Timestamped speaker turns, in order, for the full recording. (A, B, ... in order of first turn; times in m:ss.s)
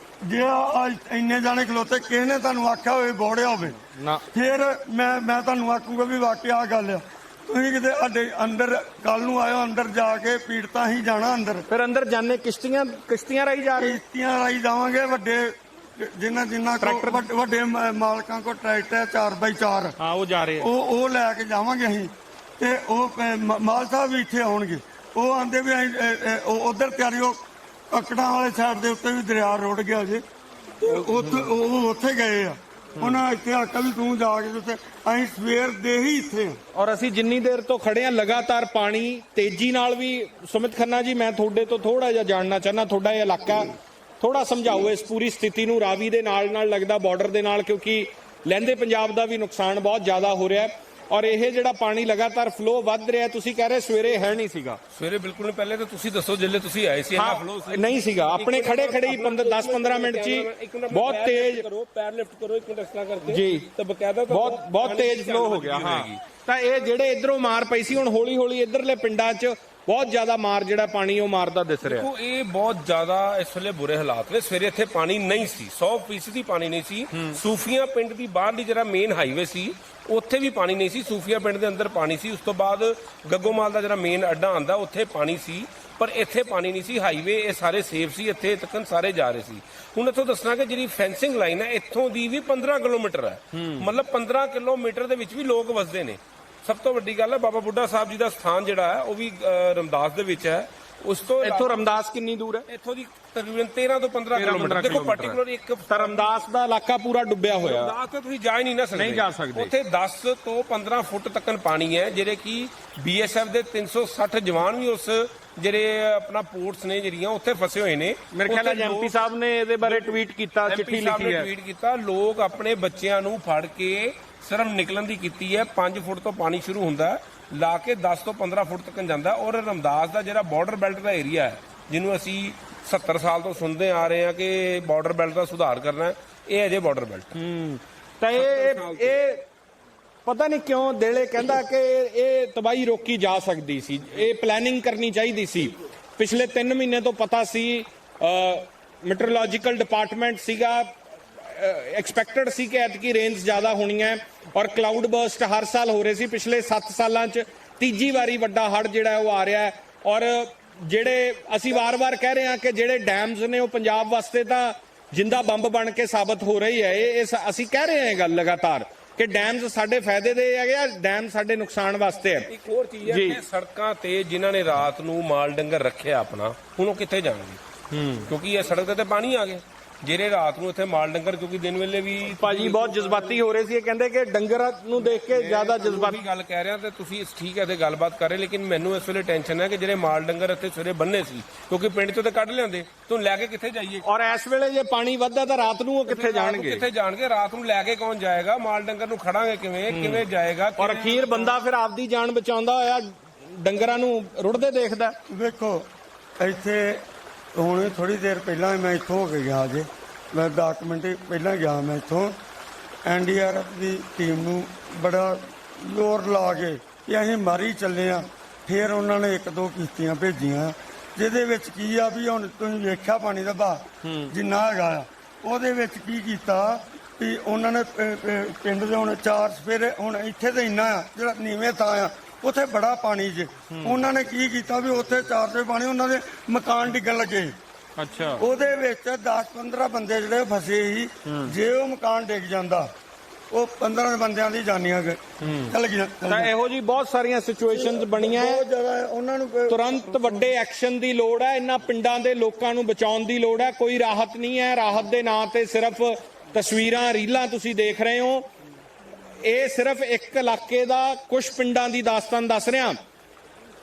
0:00.2-0:03.8 A
0:03.8-0:04.2 B
0:04.3-0:11.6 A
0:11.7-0:14.0 B
0:13.8-0:19.9 A
0:16.8-0:17.2 B
0:20.0-0:20.7 B
0:20.6-0:30.2 A
0:30.8-0:36.6 A
0:30.9-0:31.5 B
0:36.7-0:43.7 B
0:44.2-0:54.8 B
0:54.9-1:06.2 C
0:57.1-1:01.6 B
1:03.2-1:03.7 B
1:04.3-1:12.1 B
1:11.8-1:41.8 C
1:17.1-1:17.4 B
1:33.5-1:33.9 B
1:41.4-1:42.6 B
1:42.7-1:46.4 C
1:44.3-1:47.9 B
1:47.6-1:59.1 C
1:48.9-1:49.7 B
1:58.3-2:01.5 B
1:59.8-2:17.3 C
2:17.3-2:19.4 B
2:18.4-2:19.2 C
2:20.2-2:52.5 B
2:52.5-2:57.6 C
2:53.0-2:53.4 B
2:57.9-2:58.3 B
2:58.2-3:03.4 C
3:02.3-3:06.2 B
3:05.0-3:14.0 C
3:14.0-3:16.8 B
3:16.1-3:21.6 C
3:19.9-3:20.2 B
3:20.8-3:25.1 B
3:25.3-3:25.9 A
3:26.4-3:27.0 A
3:27.5-3:32.4 A
3:33.0-3:57.6 A
3:44.0-3:44.3 B
3:53.7-3:54.0 B
3:58.0-3:58.4 B
3:58.4-4:02.9 A
4:01.2-4:01.5 B
4:03.5-4:06.5 A
4:05.4-4:05.7 B
4:06.3-4:08.6 B
4:07.7-4:10.5 A
4:09.7-4:18.4 B
4:19.4-4:23.0 B